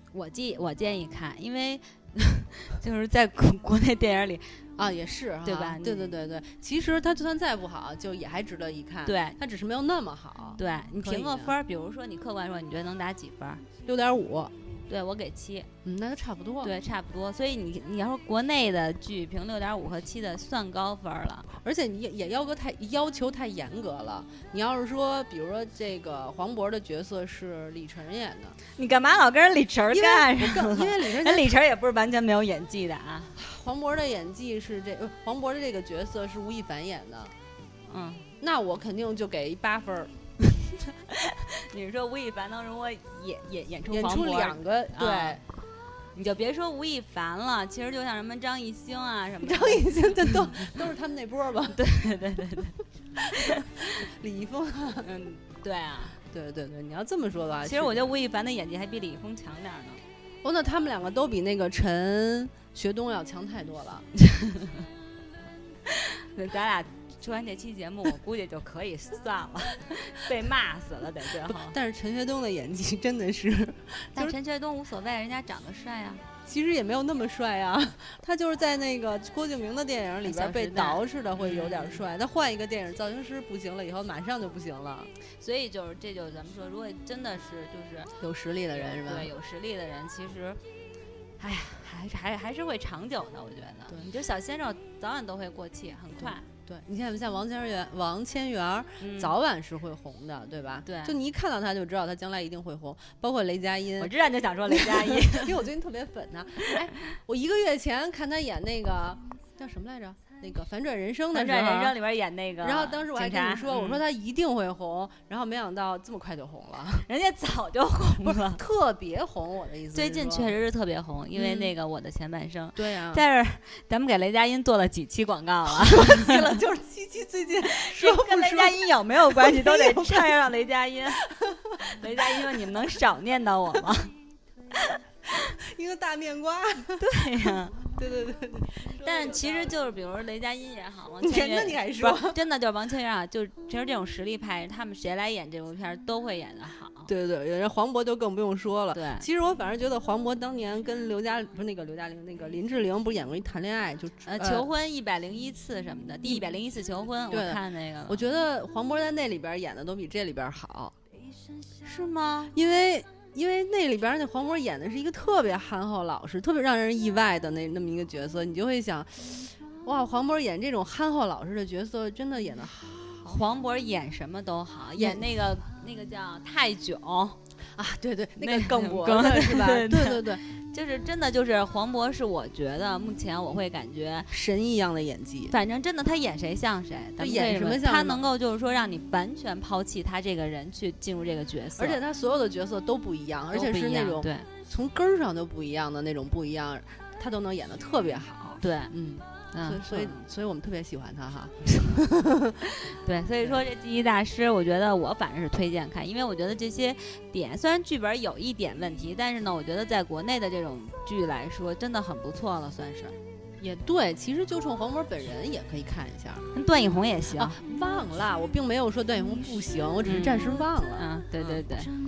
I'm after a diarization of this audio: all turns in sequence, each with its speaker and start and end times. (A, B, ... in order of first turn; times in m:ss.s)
0:00.1-0:04.6 A
0:04.8-0:11.6 B
0:05.4-0:06.2 A
0:09.1-0:09.4 A
0:10.6-0:13.6 A
0:13.9-0:14.5 B
0:14.9-0:15.7 A
0:15.8-0:16.7 B
0:16.6-0:21.5 A
0:21.5-0:28.6 B
0:28.7-0:33.4 A
0:29.9-0:31.5 B
0:33.4-0:37.4 B
0:37.9-0:38.3 A
0:38.4-0:40.1 B
0:40.4-0:45.4 A
0:43.9-0:45.4 B
0:46.1-0:50.8 A
0:49.4-0:51.8 B
0:51.7-0:52.8 A
0:53.2-0:55.1 B
0:53.4-0:53.8 A
0:55.0-0:56.2 A
0:56.3-0:58.2 B
0:57.6-1:00.0 A
1:00.4-1:04.1 B
1:04.2-1:04.9 A
1:05.9-1:11.8 A
1:11.5-1:14.4 B
1:14.2-1:16.2 A
1:16.5-1:25.1 B
1:20.2-1:22.0 A
1:25.3-1:28.1 A
1:28.2-1:29.3 B
1:28.7-1:30.6 A
1:31.4-1:36.5 A
1:36.2-1:44.1 B
1:39.0-1:39.4 A
1:40.8-1:41.2 A
1:44.0-1:45.6 A
1:44.7-1:52.0 B
1:51.3-1:54.0 A
1:52.6-1:57.1 B
1:57.1-1:58.6 A
1:58.2-2:00.6 B
1:59.9-2:06.6 A
2:01.4-2:01.7 B
2:02.8-2:03.2 B
2:05.7-2:10.4 B
2:07.7-2:11.2 A
2:11.2-2:12.6 B
2:11.8-2:14.1 A
2:15.3-2:19.8 B
2:17.0-2:17.8 A
2:19.0-2:27.1 A
2:21.2-2:22.4 B
2:27.1-2:34.7 B
2:28.9-2:29.3 A
2:34.2-2:38.3 A
2:37.3-2:41.0 B
2:41.8-2:42.6 A
2:42.5-2:53.4 B
2:53.2-2:57.4 A
2:55.0-2:55.2 B
2:57.8-3:00.4 B
2:58.4-3:04.3 A
3:04.3-3:05.6 B
3:05.5-3:12.0 A
3:07.2-3:08.2 B
3:11.8-3:22.7 B
3:13.5-3:14.5 A
3:18.6-3:18.9 A
3:19.5-3:20.2 A
3:22.8-3:33.2 A
3:33.6-3:36.5 B
3:36.5-3:37.6 A
3:37.4-3:41.7 B
3:40.0-3:41.9 A